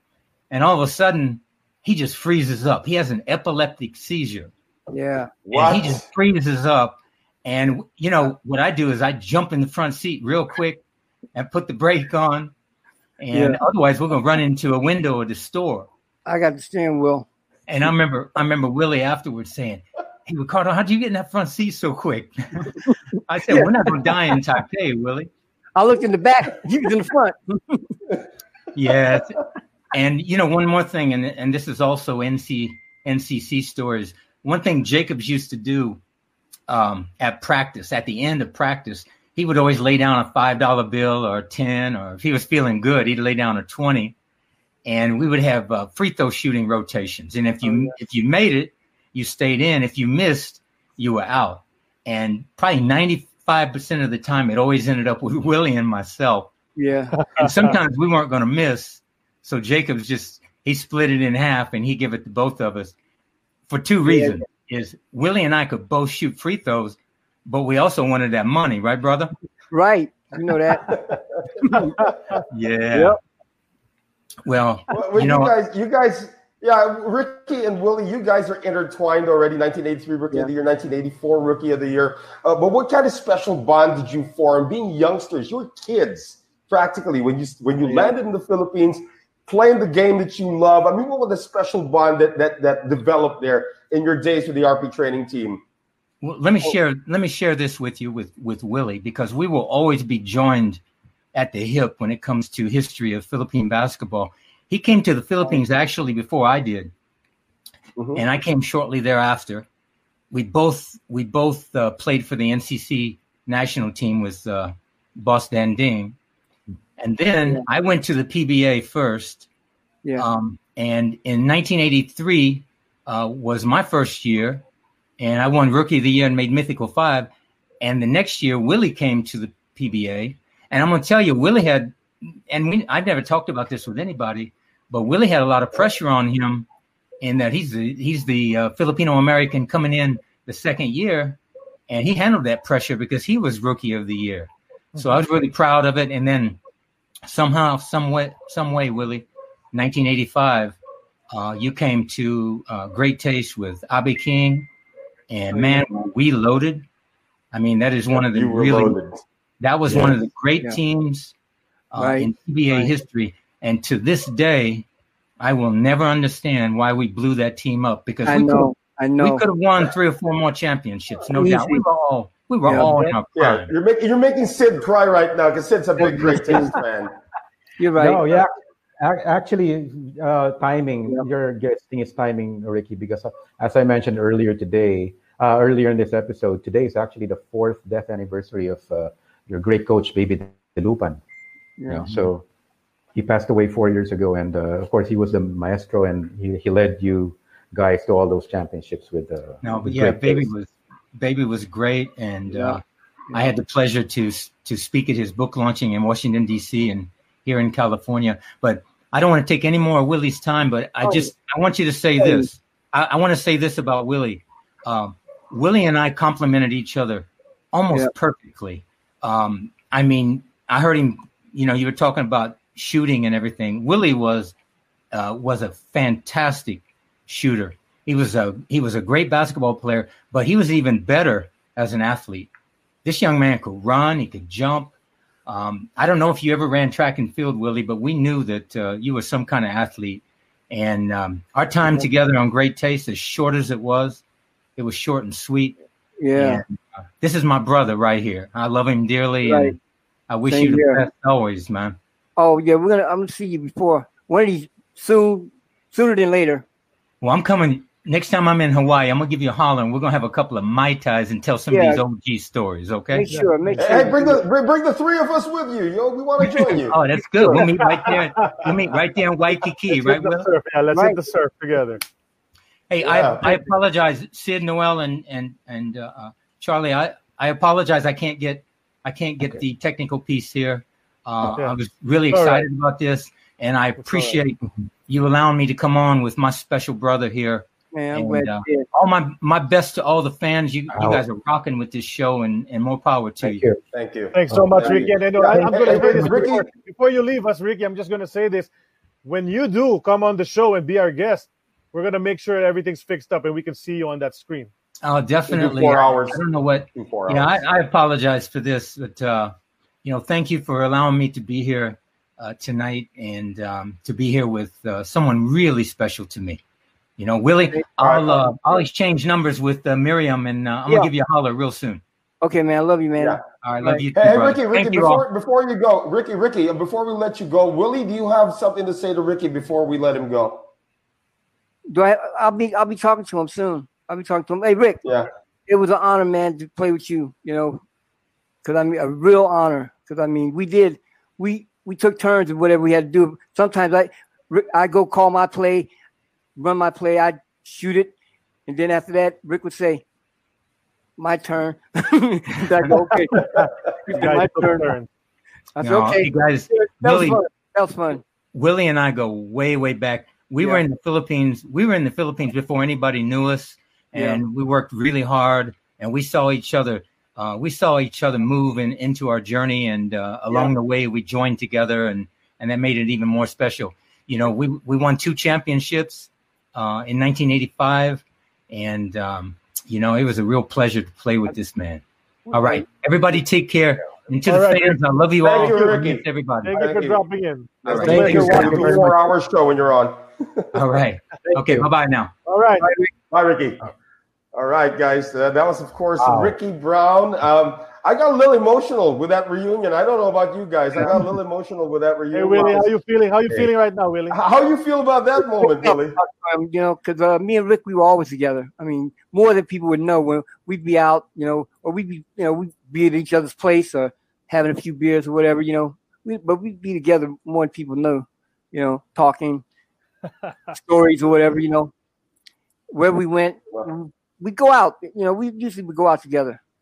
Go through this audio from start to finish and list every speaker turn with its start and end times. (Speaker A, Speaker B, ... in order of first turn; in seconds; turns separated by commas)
Speaker A: 0.5-4.5, Speaker B: 4.9-5.3, Speaker C: 5.5-6.0, Speaker A: 5.5-10.8, Speaker A: 11.3-12.5, Speaker A: 13.2-15.9, Speaker B: 13.3-13.6, Speaker B: 16.2-17.3, Speaker A: 17.7-25.3, Speaker B: 22.7-23.8, Speaker B: 25.8-28.0, Speaker A: 28.7-29.4, Speaker A: 29.9-36.0, Speaker A: 36.7-44.1, Speaker A: 44.8-56.5, Speaker B: 56.8-57.2, Speaker D: 57.1-57.8, Speaker A: 57.4-62.9, Speaker A: 63.7-69.3, Speaker B: 64.1-64.4, Speaker B: 69.7-71.0, Speaker C: 70.9-72.4, Speaker B: 71.6-71.9, Speaker D: 72.0-72.3, Speaker A: 72.5-73.2, Speaker A: 74.4-75.5, Speaker C: 74.9-95.6, Speaker A: 96.2-100.8, Speaker A: 101.3-106.9, Speaker C: 108.0-108.2, Speaker A: 108.2-109.7, Speaker A: 110.3-116.2, Speaker A: 117.0-119.5, Speaker A: 120.2-124.6, Speaker A: 125.2-136.7, Speaker A: 137.2-146.6, Speaker D: 144.9-145.2, Speaker A: 147.2-150.8, Speaker A: 151.3-154.7, Speaker A: 155.3-156.8, Speaker A: 157.5-159.0, Speaker C: 158.1-159.2, Speaker A: 159.6-161.3, Speaker C: 159.9-160.2, Speaker A: 161.9-164.8, Speaker B: 162.0-162.9, Speaker A: 165.4-173.7, Speaker B: 168.2-169.4, Speaker B: 171.3-171.8, Speaker B: 172.7-173.1, Speaker C: 173.3-177.1, Speaker B: 176.0-176.8, Speaker B: 177.8-178.2, Speaker E: 177.9-191.2, Speaker B: 191.8-192.1, Speaker E: 191.9-192.4, Speaker E: 193.1-200.5, Speaker A: 199.6-202.8, Speaker B: 202.5-202.8, Speaker A: 203.3-224.5, Speaker B: 211.0-211.3, Speaker B: 212.2-212.5, Speaker A: 225.1-232.5, Speaker A: 233.0-234.9, Speaker A: 235.5-244.2, Speaker A: 244.8-245.8, Speaker B: 246.2-246.6, Speaker A: 246.3-249.8, Speaker B: 249.4-249.8, Speaker A: 250.3-252.0, Speaker B: 250.5-251.0, Speaker B: 252.4-256.6, Speaker A: 257.2-263.4, Speaker B: 261.7-262.0, Speaker B: 263.1-264.4, Speaker D: 263.3-263.5, Speaker C: 263.8-267.0, Speaker B: 266.4-267.6, Speaker A: 266.8-270.5, Speaker D: 267.5-268.7, Speaker D: 269.9-272.0, Speaker B: 270.9-271.2, Speaker A: 272.9-293.7, Speaker C: 273.0-273.5, Speaker D: 282.3-282.6, Speaker D: 284.0-284.4, Speaker B: 287.9-288.9, Speaker E: 290.9-291.2, Speaker E: 293.4-293.8, Speaker C: 293.9-296.6, Speaker D: 294.3-298.7, Speaker E: 294.5-294.7, Speaker E: 295.5-296.5, Speaker D: 299.2-304.7, Speaker A: 305.0-316.6, Speaker C: 305.5-306.4, Speaker C: 306.9-307.6, Speaker A: 317.2-322.0, Speaker C: 318.0-318.6, Speaker B: 322.4-324.0, Speaker A: 323.6-325.2, Speaker C: 324.1-330.6, Speaker B: 331.9-335.0, Speaker C: 335.0-335.3, Speaker B: 335.7-337.8, Speaker B: 338.6-345.9, Speaker B: 346.6-348.1, Speaker B: 348.7-350.0, Speaker B: 351.2-354.9, Speaker D: 352.9-355.1, Speaker B: 355.7-358.2, Speaker A: 355.8-357.4, Speaker A: 358.5-386.8, Speaker B: 364.1-364.4, Speaker B: 382.5-382.8, Speaker D: 384.4-385.0, Speaker C: 385.4-387.2, Speaker D: 385.5-386.0, Speaker D: 386.6-388.7, Speaker C: 387.8-390.8, Speaker A: 387.9-388.9, Speaker E: 388.0-389.3, Speaker A: 390.7-392.3, Speaker E: 391.6-391.9, Speaker D: 392.4-392.9, Speaker B: 392.8-393.1, Speaker C: 393.3-393.8, Speaker C: 394.5-402.9, Speaker E: 396.2-396.6, Speaker D: 402.3-404.4, Speaker C: 404.3-406.2, Speaker B: 405.6-419.6, Speaker B: 420.7-421.9, Speaker B: 422.9-426.6